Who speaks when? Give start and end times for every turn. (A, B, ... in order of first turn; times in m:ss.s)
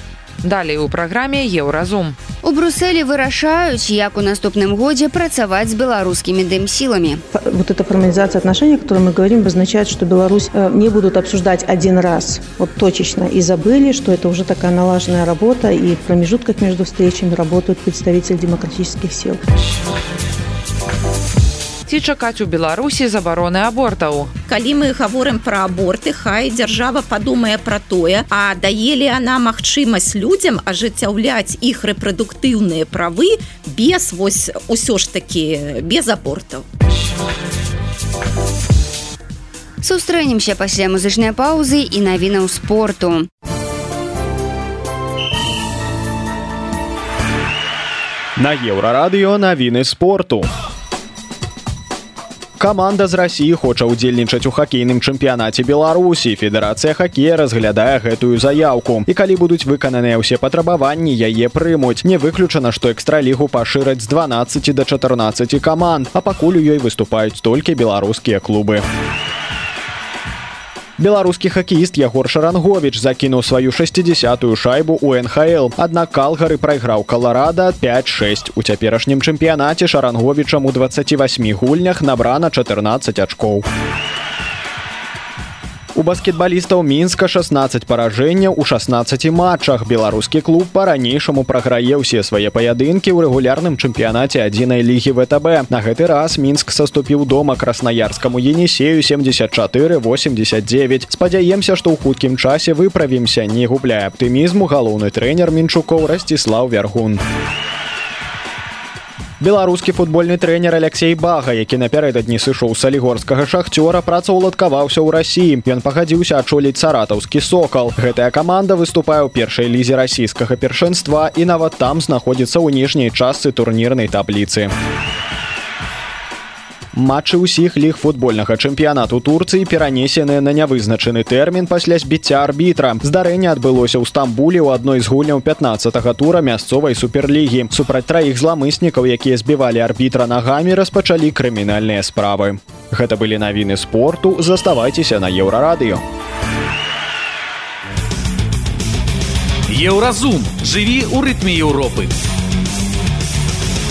0:00.4-0:02.2 A
0:02.4-0:07.2 B
0:07.3-0:19.4 C
0:21.9-0:24.3 A
0:24.5-0:36.6 D
0:39.8-0:43.3 B
0:48.4-0:50.5 E
0:52.6-1:08.8 E
1:11.0-1:23.6 E
1:25.9-1:47.2 E
1:49.4-2:04.7 E
2:06.9-2:26.0 E
2:29.7-2:32.1 F